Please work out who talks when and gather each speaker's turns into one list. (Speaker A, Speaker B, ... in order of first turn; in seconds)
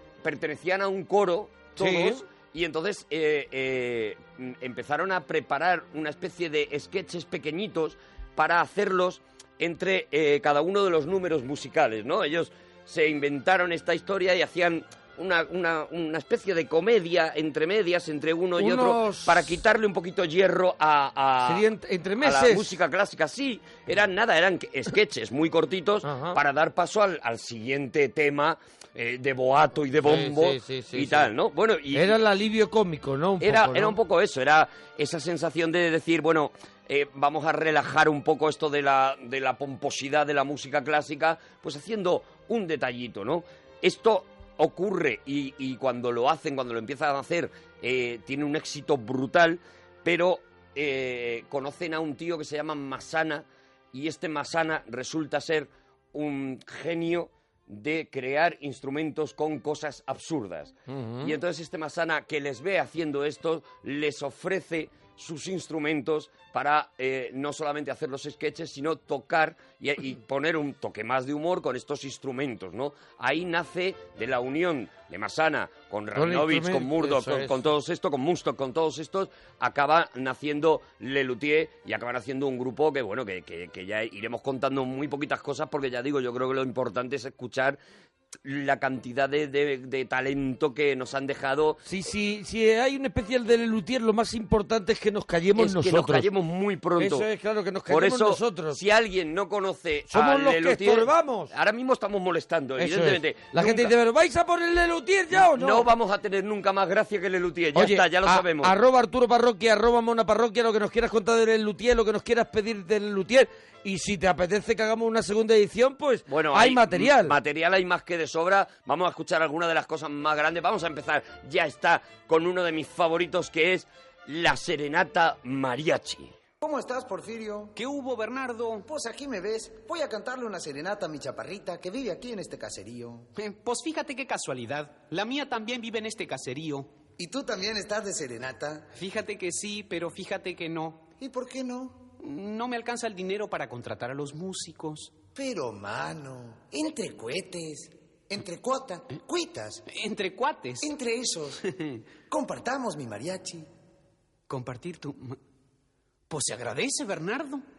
Speaker A: 0.2-32.2, 33.4-87.8, 88.4-91.8, 95.6-97.3, 97.9-103.9, 105.5-108.7, 116.3-126.4
Speaker B: 1.8-2.2, 18.6-19.4, 21.4-22.8, 26.0-26.4, 30.0-31.3, 31.9-34.0, 60.9-61.4, 76.2-77.6, 91.9-96.3, 97.0-98.8, 100.1-101.5, 102.8-105.9, 107.8-117.4
Speaker C: 126.6-127.7, 128.8-133.3, 137.2-138.9, 141.2-142.1, 145.3-149.8, 150.8-151.6, 152.3-153.7
Speaker D: 127.8-128.8, 133.4-136.9, 139.0-141.1, 142.2-145.2, 149.9-150.9, 154.5-155.4, 156.3-157.6